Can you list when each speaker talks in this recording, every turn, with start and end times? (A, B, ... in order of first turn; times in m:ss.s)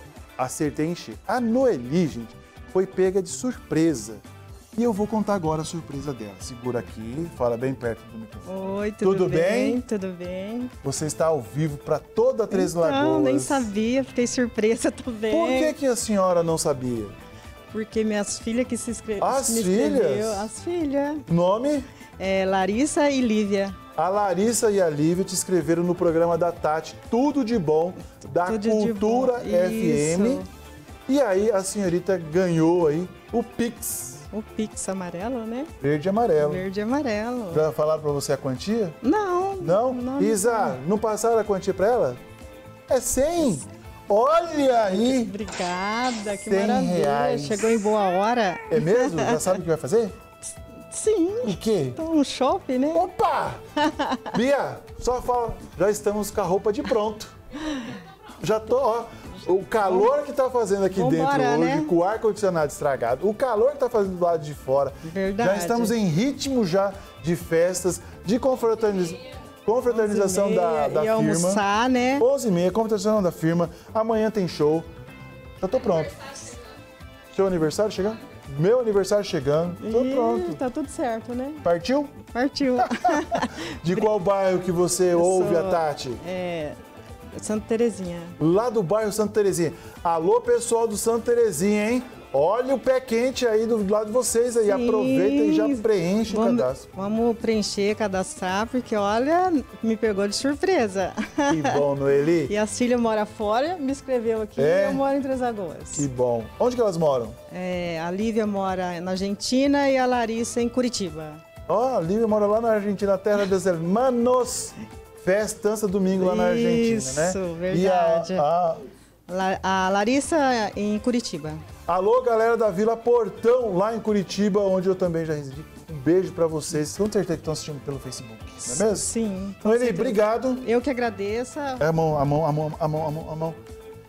0:00.4-0:04.2 A
0:04.8-0:09.8 A
0:08.4-0:10.7 B
0:10.8-0:13.7 A
0:12.5-0:15.8 B
0:15.3-0:17.2 A
0:17.7-0:21.3 B
0:19.2-0:20.5 A
0:21.3-0:21.9 A
0:22.2-0:23.8 B
0:24.0-0:30.4 A
0:28.4-0:30.5 B
0:31.1-0:34.3 A
0:34.3-0:35.7 B
0:35.8-0:36.6 A
0:36.4-0:37.6 B
0:37.5-0:39.0 A
0:39.0-0:40.8 B
0:39.6-0:42.2 A
0:42.9-0:45.3 A
0:44.8-0:49.6 B
0:46.4-0:47.9 A
0:48.7-0:50.2 A
0:50.9-0:53.1 B
0:51.4-0:52.0 A
0:52.9-0:53.6 A
0:53.8-0:54.3 B
0:54.3-0:57.4 A
0:58.4-1:11.6 A
0:59.8-1:00.1 B
1:00.9-1:01.9 B
1:05.0-1:06.0 B
1:09.9-1:12.2 B
1:12.2-1:14.9 A
1:15.6-1:16.5 A
1:17.3-1:20.6 A
1:19.8-1:21.6 B
1:21.6-1:22.2 A
1:22.3-1:24.1 B
1:22.9-1:26.2 A
1:25.1-1:26.8 B
1:27.4-1:28.4 B
1:28.4-1:36.9 A
1:34.6-1:41.9 B
1:41.5-1:42.5 A
1:42.4-1:46.1 B
1:44.6-1:45.0 A
1:45.9-1:47.4 A
1:47.5-1:51.4 B
1:51.7-1:58.8 A
1:56.2-1:58.5 B
1:59.3-2:01.6 B
2:01.9-2:10.6 A
2:08.7-2:11.8 B
2:11.8-2:13.6 A